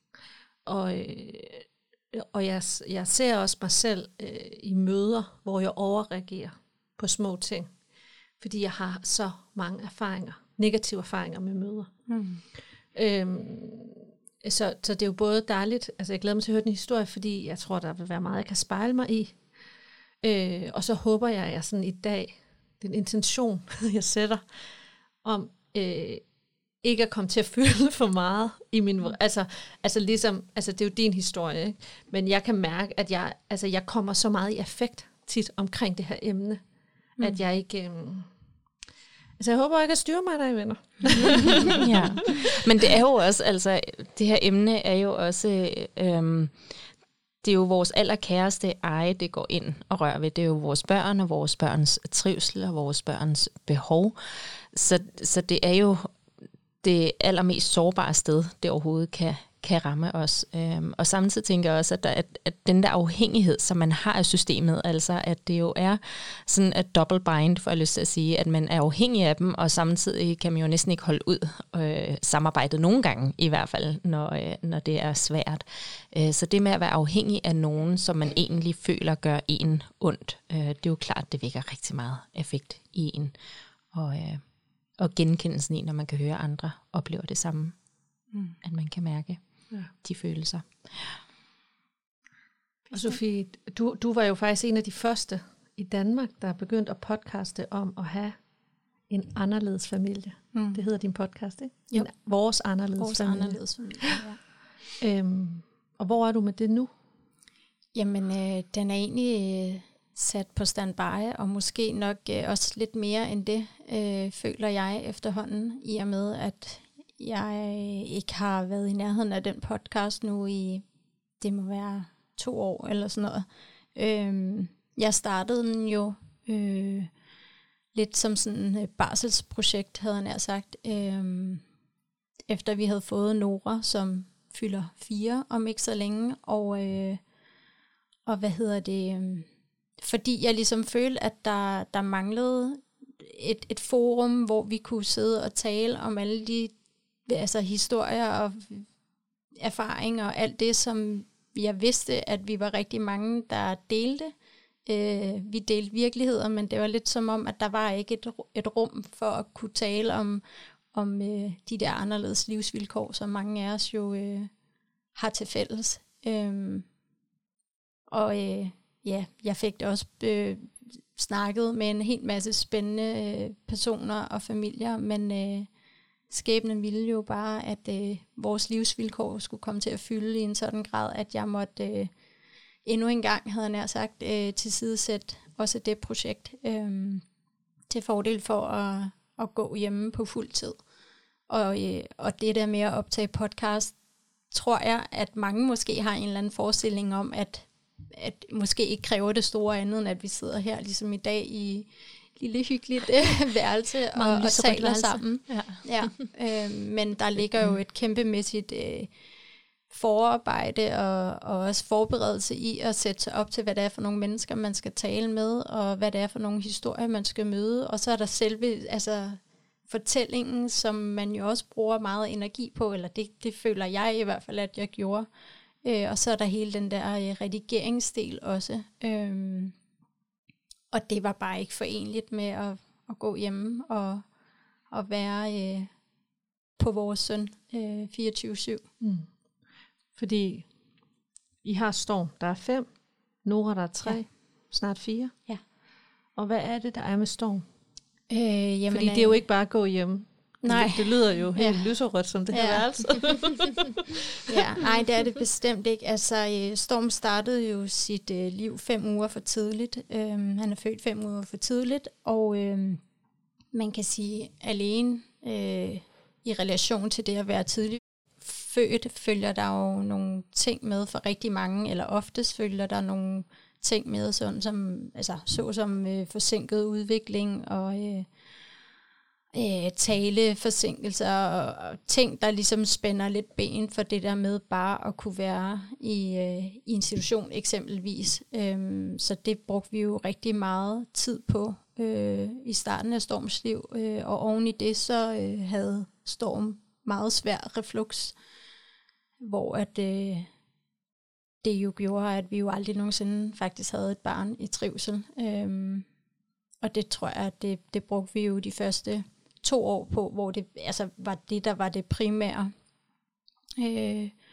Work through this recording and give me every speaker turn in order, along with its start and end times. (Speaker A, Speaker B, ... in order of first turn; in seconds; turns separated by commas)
Speaker A: 0.6-7.7, Speaker A: 8.4-11.9, Speaker B: 12.1-12.4, Speaker A: 12.9-19.4, Speaker A: 20.2-26.2, Speaker A: 26.8-36.6, Speaker A: 37.2-38.3, Speaker A: 39.4-42.4, Speaker C: 41.8-46.8, Speaker C: 47.4-56.1, Speaker C: 56.8-83.3, Speaker C: 83.9-84.4, Speaker C: 85.0-87.8, Speaker B: 88.3-88.6, Speaker C: 88.6-91.2, Speaker B: 92.9-93.2, Speaker A: 92.9-98.3, Speaker A: 99.1-104.2, Speaker B: 100.5-100.8, Speaker B: 103.0-104.4, Speaker A: 105.0-106.9, Speaker B: 107.9-120.8, Speaker B: 121.4-127.1, Speaker B: 127.9-131.6, Speaker B: 132.5-137.2, Speaker B: 138.2-139.5, Speaker B: 140.0-146.7, Speaker B: 147.2-148.9, Speaker B: 149.6-154.3, Speaker B: 154.8-164.5, Speaker B: 165.2-166.8, Speaker B: 168.1-175.7, Speaker B: 176.3-182.1, Speaker B: 182.8-187.2, Speaker B: 187.9-190.8, Speaker B: 191.5-194.0, Speaker B: 194.5-209.1, Speaker A: 204.1-205.7, Speaker B: 209.9-225.3, Speaker B: 225.8-229.7, Speaker B: 230.9-234.2, Speaker B: 234.9-235.9, Speaker B: 236.8-238.8, Speaker A: 239.0-239.3, Speaker A: 240.1-240.7, Speaker A: 241.6-242.8, Speaker A: 243.4-245.3, Speaker A: 246.3-247.6, Speaker B: 248.3-249.4, Speaker A: 248.9-254.3, Speaker B: 250.6-251.9, Speaker B: 252.5-252.8, Speaker B: 254.4-263.0, Speaker B: 263.7-278.3, Speaker B: 279.5-298.4, Speaker B: 299.4-300.5, Speaker B: 301.6-306.1, Speaker B: 306.8-312.7, Speaker B: 313.8-314.3